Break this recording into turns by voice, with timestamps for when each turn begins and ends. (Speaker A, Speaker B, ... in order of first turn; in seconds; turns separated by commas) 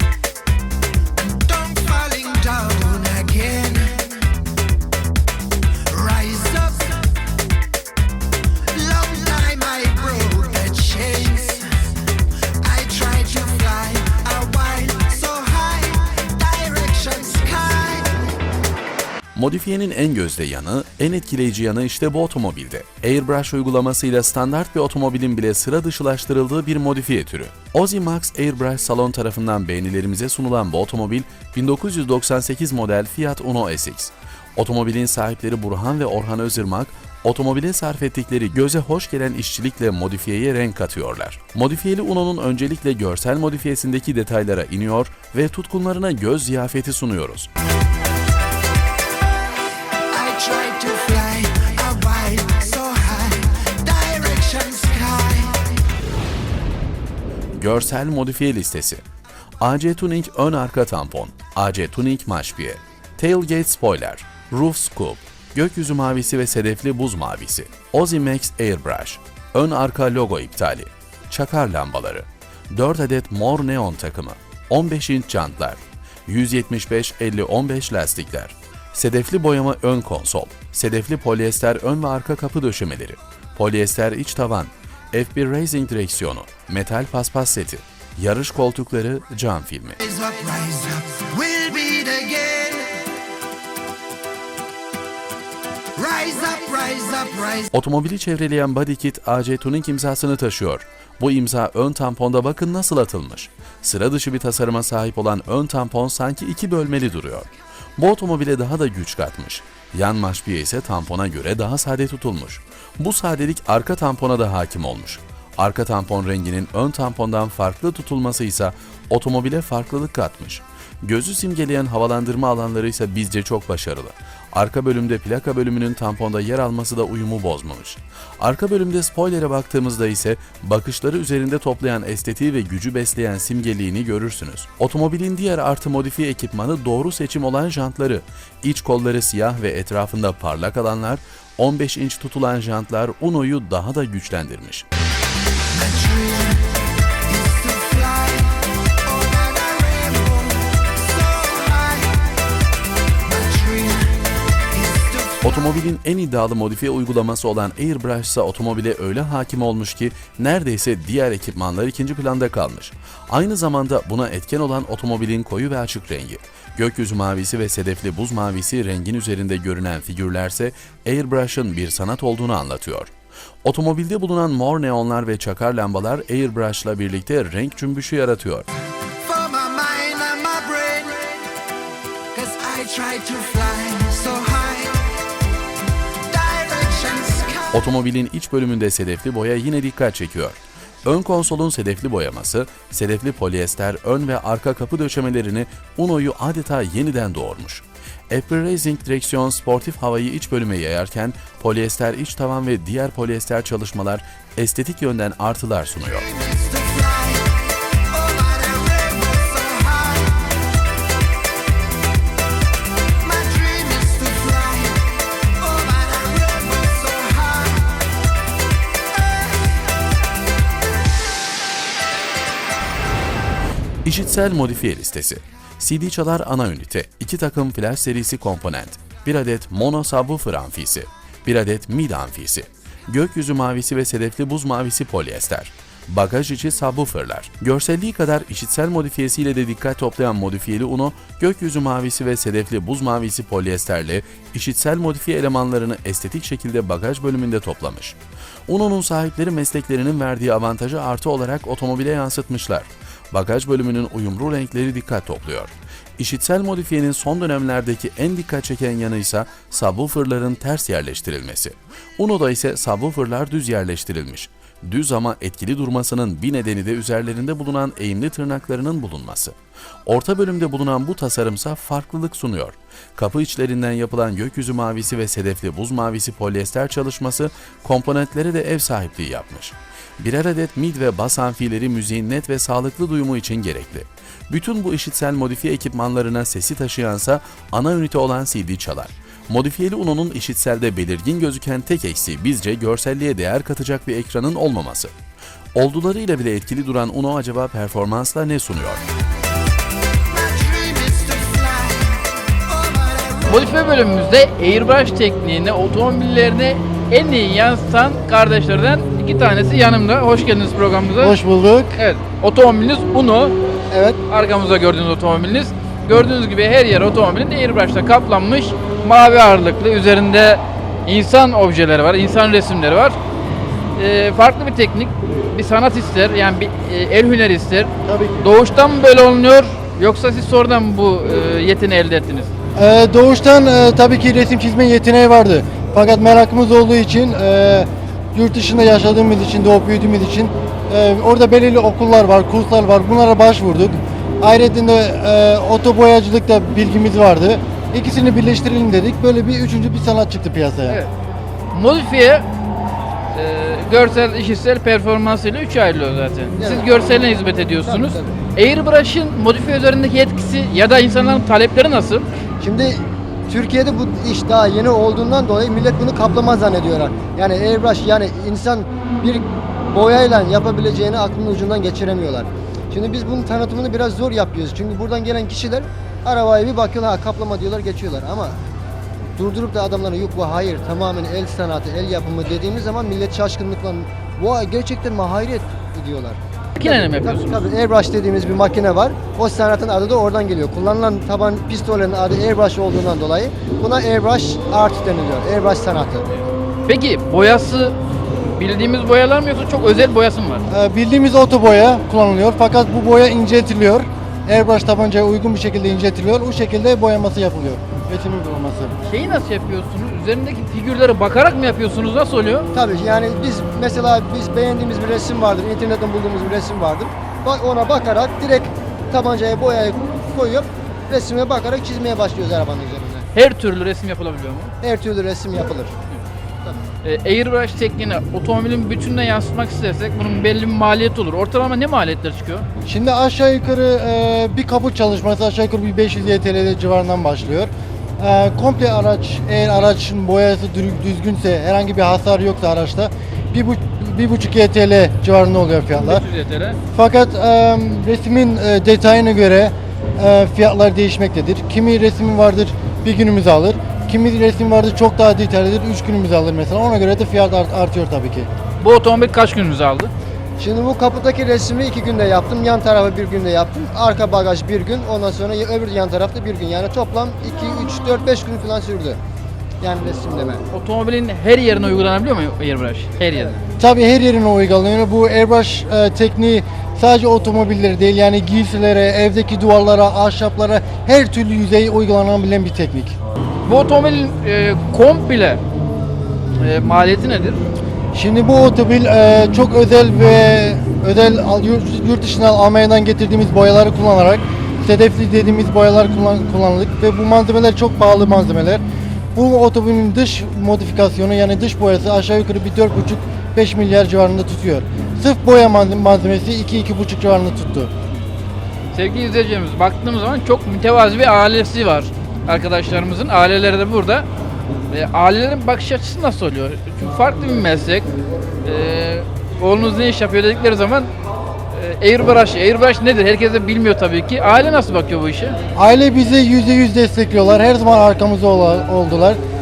Speaker A: 1.2-4.2, Speaker A: 5.9-7.0, Speaker A: 8.7-12.0, Speaker A: 12.6-18.2, Speaker B: 19.3-47.5, Speaker A: 50.1-55.8, Speaker B: 57.5-59.0, Speaker B: 59.6-90.0, Speaker A: 90.0-93.0, Speaker A: 96.0-97.7, Speaker B: 97.7-144.9, Speaker A: 145.7-146.7, Speaker A: 147.3-152.2, Speaker A: 153.2-155.7, Speaker B: 155.4-173.1, Speaker B: 173.6-178.7, Speaker A: 179.2-181.4, Speaker A: 182.3-185.1, Speaker A: 186.3-187.8, Speaker B: 187.7-206.3, Speaker A: 206.2-210.5, Speaker A: 213.2-217.9, Speaker B: 224.0-269.5, Speaker B: 270.1-295.1, Speaker B: 295.8-299.0, Speaker A: 300.3-303.5, Speaker C: 303.4-311.4, Speaker D: 311.2-312.0, Speaker C: 312.0-313.5, Speaker C: 314.3-323.2, Speaker C: 323.9-332.5, Speaker D: 328.0-328.5, Speaker D: 332.8-351.0, Speaker C: 351.7-352.5, Speaker C: 353.3-362.2, Speaker E: 356.6-356.9, Speaker E: 357.9-358.4, Speaker E: 362.6-378.6, Speaker E: 379.4-396.3, Speaker C: 386.8-387.7, Speaker C: 396.9-398.0, Speaker C: 398.5-400.6, Speaker D: 400.7-408.9, Speaker C: 409.0-412.7, Speaker E: 412.7-423.3, Speaker C: 423.3-424.7, Speaker E: 424.8-426.0, Speaker C: 427.0-432.6, Speaker D: 432.9-446.2, Speaker C: 446.0-446.8, Speaker D: 446.9-458.5, Speaker C: 458.8-460.1, Speaker E: 460.6-469.2, Speaker E: 469.8-470.6, Speaker C: 470.7-473.6, Speaker D: 473.8-483.1, Speaker C: 483.6-485.6, Speaker C: 486.6-487.6, Speaker D: 488.1-498.8, Speaker D: 499.4-507.9, Speaker C: 508.9-514.3, Speaker C: 514.9-518.1, Speaker C: 518.6-521.1, Speaker C: 521.7-525.5, Speaker D: 525.8-529.4